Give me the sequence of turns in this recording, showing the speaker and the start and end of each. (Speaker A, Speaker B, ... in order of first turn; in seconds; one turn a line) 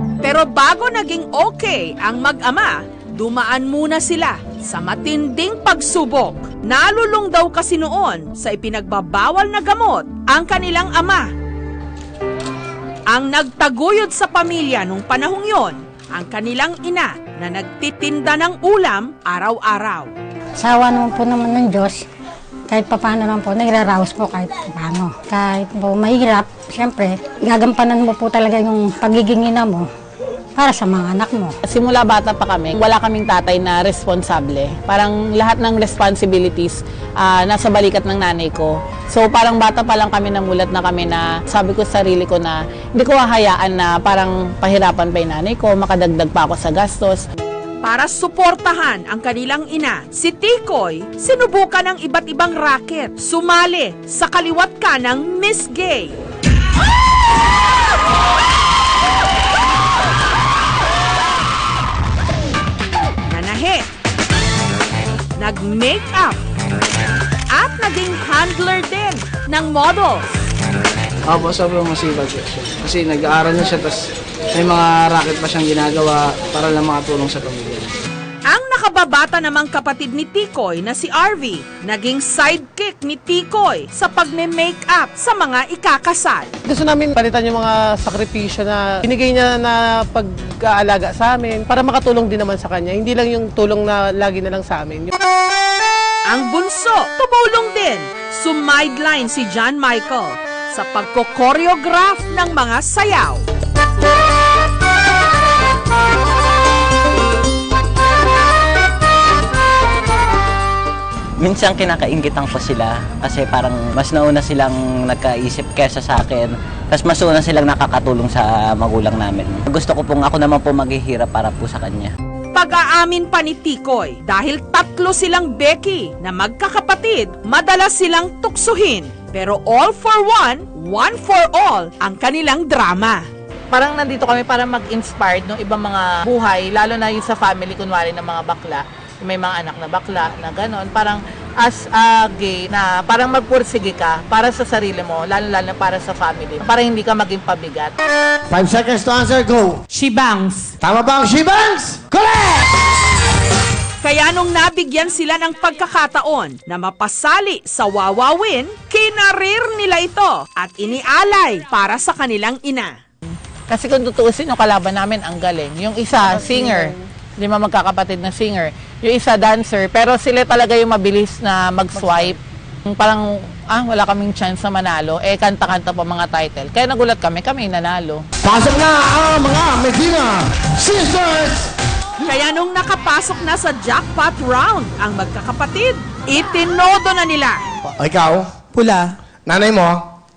Speaker A: 0.2-11.3
Speaker A: 13.1-20.1
Speaker B: 20.6-22.0
Speaker B: 22.7-29.9
Speaker B: 30.6-31.6
Speaker C: 31.7-47.2
Speaker A: 47.8-56.2
Speaker A: 63.3-63.9
Speaker A: 65.4-66.4
Speaker A: 67.5-70.3
Speaker D: 71.3-74.0
Speaker D: 74.6-77.8
Speaker A: 78.5-86.5
Speaker E: 86.7-95.1
Speaker A: 96.3-103.4
Speaker F: 111.4-122.1
Speaker A: 122.5-133.2
Speaker C: 133.7-147.9
Speaker G: 148.5-149.8
Speaker C: 149.9-150.7
Speaker G: 150.8-152.7
Speaker A: 154.0-163.0
Speaker C: 163.7-172.4
Speaker E: 166.1-167.0
Speaker E: 171.9-172.3
Speaker C: 172.9-178.2
Speaker G: 178.4-181.7
Speaker A: 182.2-187.6
Speaker G: 187.9-188.5
Speaker C: 188.7-189.1
Speaker G: 189.5-190.0